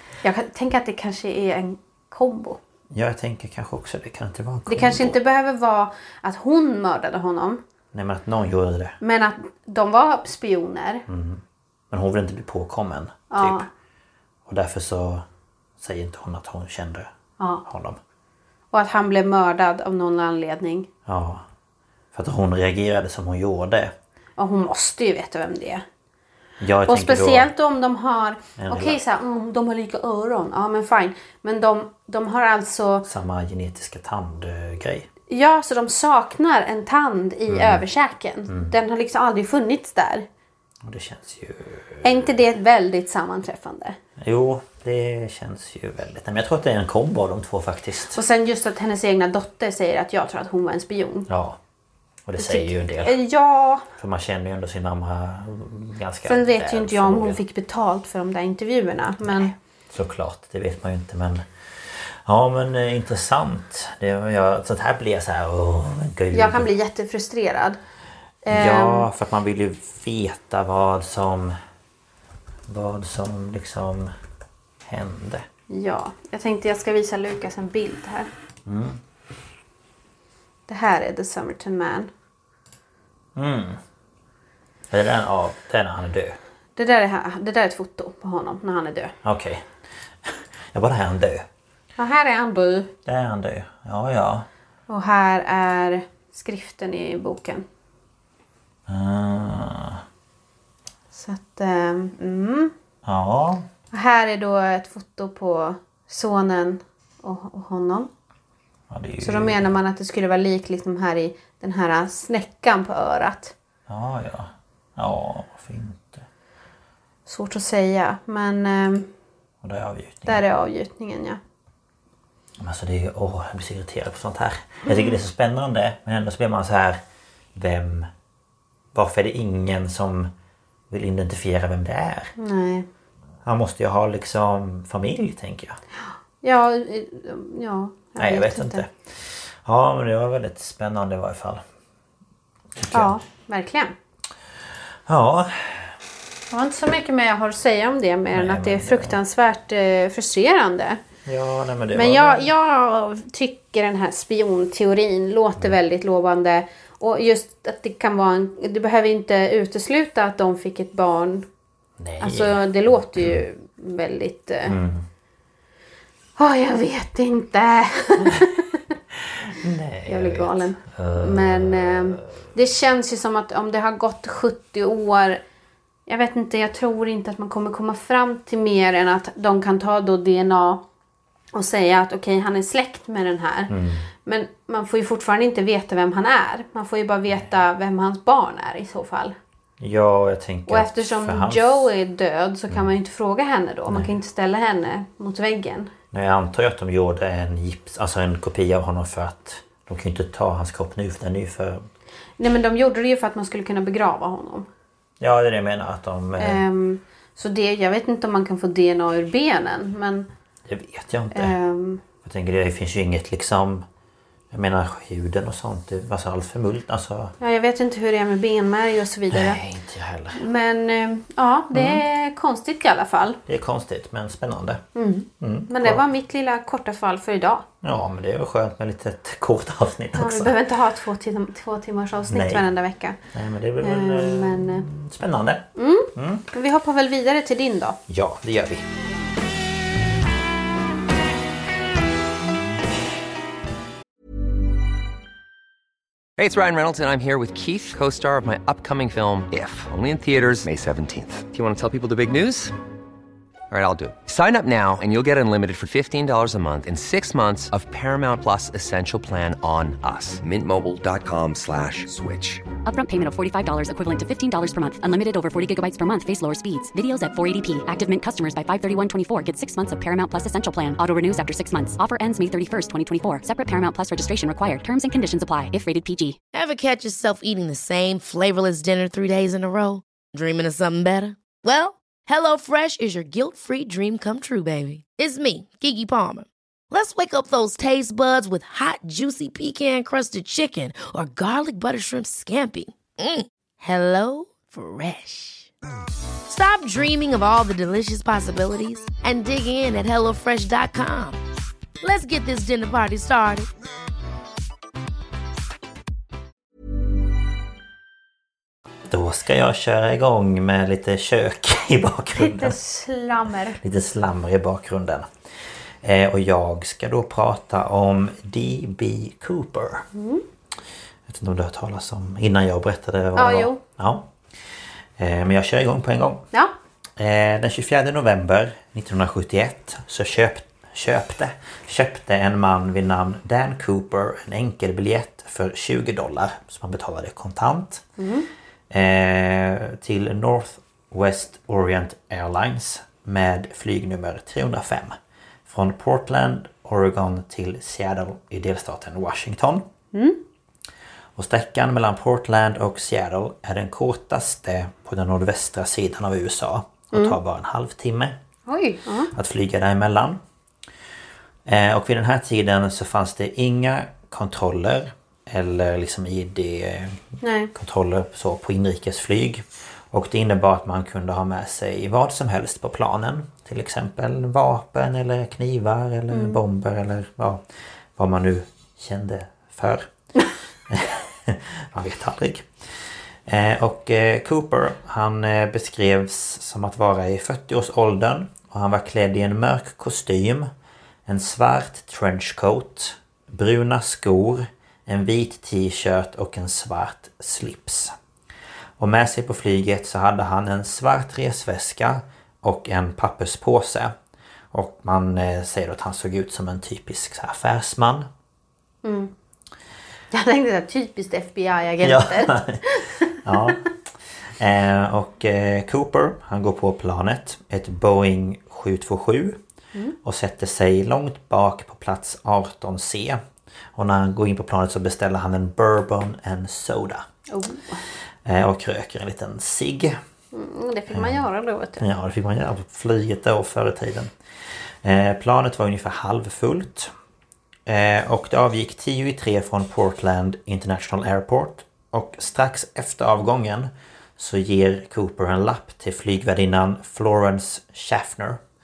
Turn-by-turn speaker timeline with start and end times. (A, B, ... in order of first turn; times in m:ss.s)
0:00.2-0:02.6 A
0:02.9-0:05.2 B
0:04.7-0:07.6 A
0:07.9-0:09.0 B
0:09.0-0:11.0 A
0:11.1-0:13.6 B
0:13.3-0:13.7 A
0:14.5-0:15.2 B
0:15.8-0:17.1 B
0:17.4-0:17.6 A
0:17.6-0:18.0 B
0:18.7-0:20.9 A
0:21.1-0:21.4 B
0:22.1-0:23.9 B
0:24.4-0:25.8 A
0:26.6-0:27.5 B
0:26.9-0:33.1 A
0:28.6-0:29.0 B
0:33.1-0:35.1 B
0:35.3-0:40.3 A
0:37.5-0:37.8 B
0:38.5-0:38.7 B
0:40.8-0:42.3 B
0:42.0-0:44.0 A
0:44.2-0:48.2 B
0:48.1-0:51.3 A
0:51.3-0:51.6 B
0:52.3-0:53.2 B
0:52.4-0:53.9 A
0:54.0-0:57.4 B
0:56.2-0:59.5 A
0:59.2-1:06.7 B
1:06.3-1:07.8 A
1:08.4-1:09.1 A
1:08.5-1:11.6 B
1:12.7-1:14.1 B
1:14.8-1:15.4 B
1:15.7-1:18.3 A
1:18.6-1:19.0 B
1:20.7-1:22.1 A
1:23.4-1:23.8 B
1:24.9-1:26.4 B
1:26.8-1:29.1 A
1:29.2-1:29.6 B
1:30.2-1:31.5 B
1:32.0-1:32.9 A
1:33.0-1:34.5 B
1:34.9-1:37.6 A
1:38.9-1:40.0 B
1:41.1-1:42.7 A
1:43.0-1:43.6 B
1:43.9-1:48.1 A
1:48.9-1:49.7 B
1:49.2-1:53.5 A
1:53.9-1:56.3 B
1:57.3-1:59.1 A
1:59.6-2:00.4 B
2:00.3-2:01.4 A
2:02.6-2:07.0 B
2:07.6-2:08.1 B
2:08.9-2:10.3 B
2:10.9-2:12.3 B
2:12.4-2:12.9 A
2:13.4-2:15.8 B
2:16.4-2:18.8 A
2:18.2-2:18.9 B
2:19.6-2:21.6 B
2:22.8-2:23.1 B
2:22.9-2:23.9 A
2:25.1-2:25.9 B
2:26.5-2:31.0 A
2:28.3-2:29.2 B
2:31.2-2:32.5 B
2:31.9-2:41.5 A
2:42.0-2:43.4 B
2:42.2-2:44.8 A
2:44.6-2:45.1 B
2:46.4-2:48.9 A
2:49.1-2:52.4 B
2:50.1-2:55.4 A
2:56.1-3:00.8 A
3:01.5-3:09.4 A
3:03.7-3:04.1 B
3:09.8-3:11.9 B
3:10.7-3:15.9 A
3:16.1-3:21.8 B
3:22.4-3:24.7 A
3:25.2-3:26.6 B
3:26.4-3:30.3 A
3:30.6-3:31.5 B
3:31.3-3:32.0 A
3:32.2-3:33.9 B
3:34.5-3:37.3 B
3:37.4-3:39.6 A
3:39.3-3:40.4 B
3:40.4-3:43.4 A
3:41.7-3:42.0 B
3:43.5-3:44.8 B
3:44.9-3:47.6 A
3:45.4-3:46.0 B
3:47.8-3:50.6 B
3:50.2-3:53.2 A
3:52.3-3:52.7 B
3:53.3-3:56.5 B
3:53.8-3:54.9 A
3:55.8-3:58.0 A
3:58.1-3:58.9 B
4:06.4-4:12.7 C
4:13.7-4:22.6 C
4:22.8-4:36.4 D
4:36.5-4:55.7 E
4:56.5-5:01.4 E
5:02.0-5:03.7 E
5:09.1-5:12.8 B
5:12.4-5:13.8 A
5:13.8-5:15.3 B
5:16.0-5:20.1 B
5:20.1-5:20.4 A
5:21.3-5:24.3 B
5:23.4-5:23.8 A
5:25.2-5:26.5 B
5:27.2-5:38.1 B
5:38.2-5:38.5 A
5:38.9-5:49.9 B
5:50.1-5:50.4 A
5:51.4-5:58.4 B
5:58.7-5:59.3 A
5:59.3-6:00.4 B
6:01.6-6:07.2 B
6:07.4-6:07.7 A
6:07.7-6:17.6 B
6:16.3-6:16.6 A
6:18.2-6:20.1 B
6:20.9-6:22.7 B
6:23.5-6:30.7 B
6:31.3-6:38.1 B
6:39.0-6:44.1 B
6:44.7-6:48.3 B
6:49.0-6:49.3 A
6:50.3-6:53.8 A
6:52.0-6:52.8 B
6:53.4-6:53.8 B
6:54.6-6:59.6 B
7:00.2-7:03.4 B
7:04.0-7:07.3 B
7:07.5-7:08.0 A
7:08.4-7:10.2 B
7:10.5-7:12.0 A
7:11.1-7:11.4 B
7:12.0-7:14.3 B
7:15.0-7:17.1 B
7:17.9-7:28.6 B